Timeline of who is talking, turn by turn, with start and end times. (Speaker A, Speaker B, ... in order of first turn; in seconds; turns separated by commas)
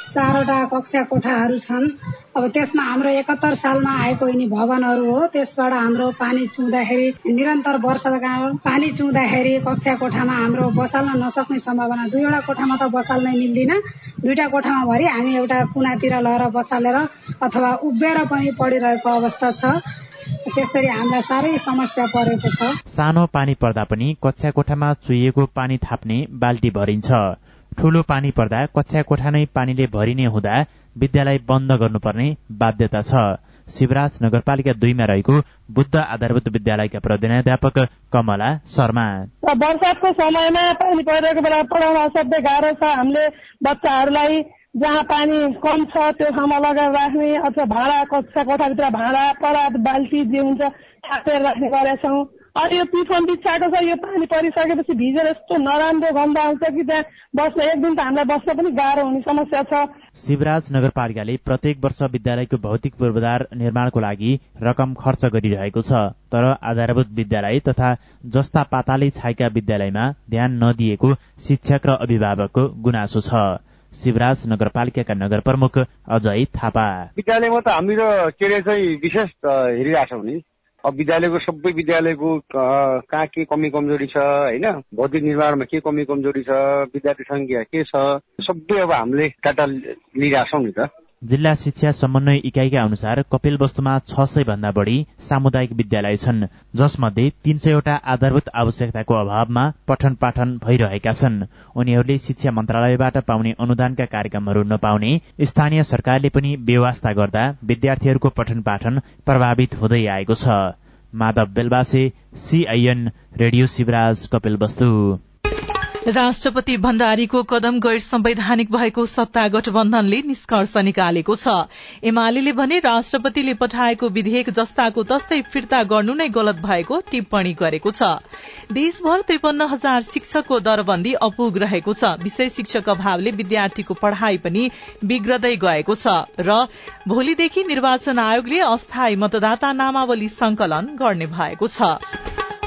Speaker A: 0.1-19.7, Speaker A: 20.5-22.8, Speaker B: 22.9-39.3, Speaker C: 39.4-59.9, Speaker B: 60.2-77.0, Speaker D: 77.2-90.9, Speaker B: 91.2-115.2, Speaker E: 116.1-128.2, Speaker E: 128.7-142.0